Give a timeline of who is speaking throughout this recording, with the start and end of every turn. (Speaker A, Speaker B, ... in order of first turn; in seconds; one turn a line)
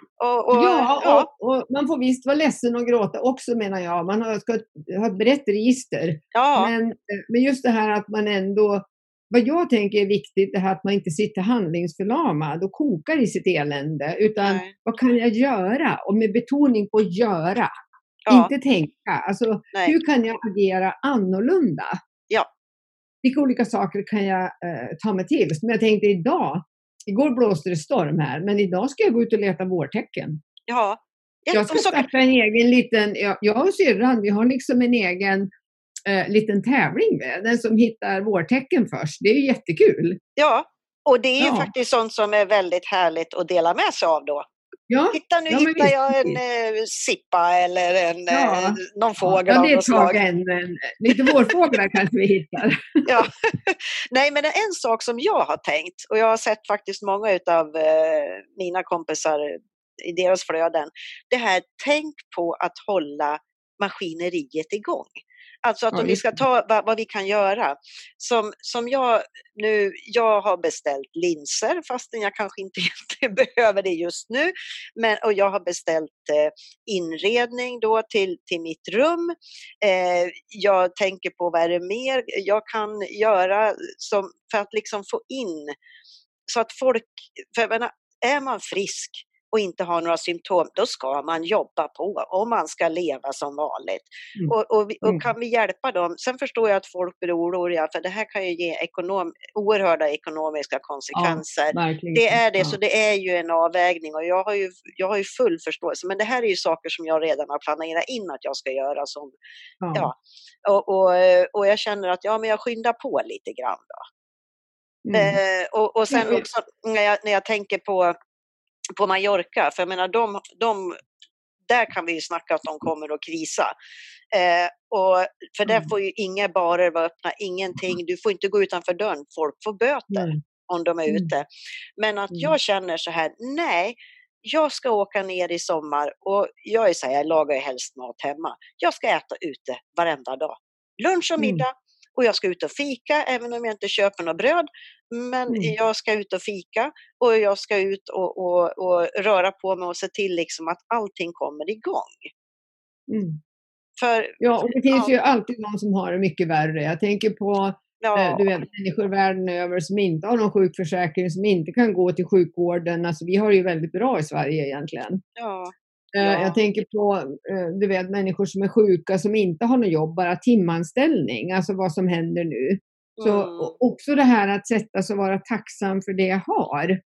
Speaker A: 0.2-1.3
Speaker B: 0.5-17.7
Speaker A: 6.3-6.7
Speaker A: 14.4-14.8
Speaker B: 18.3-22.0
Speaker B: 23.2-30.4
Speaker A: 30.7-32.1
Speaker B: 31.5-35.5
Speaker B: 36.1-40.2
Speaker A: 40.4-44.5
Speaker B: 41.4-41.7
Speaker B: 44.9-46.4
Speaker A: 45.1-50.2
Speaker B: 48.3-53.1
Speaker A: 51.1-51.8
Speaker A: 53.0-85.8
Speaker B: 65.9-66.4
Speaker A: 86.5-109.4
Speaker B: 94.4-95.2
Speaker B: 101.2-102.8
Speaker B: 109.8-110.1
Speaker A: 109.9-114.0
Speaker B: 115.0-115.4
Speaker A: 115.1-118.2
Speaker B: 116.1-116.4
Speaker A: 119.0-121.0
Speaker A: 121.7-123.7
Speaker A: 124.3-131.5
Speaker B: 125.7-125.9
Speaker B: 130.1-130.4
Speaker A: 132.0-152.3
Speaker B: 141.4-141.6
Speaker B: 153.1-153.4
Speaker A: 154.0-155.1
Speaker B: 154.4-165.2
Speaker A: 158.0-158.5
Speaker A: 165.4-166.7
Speaker B: 166.1-177.0
Speaker A: 173.2-173.7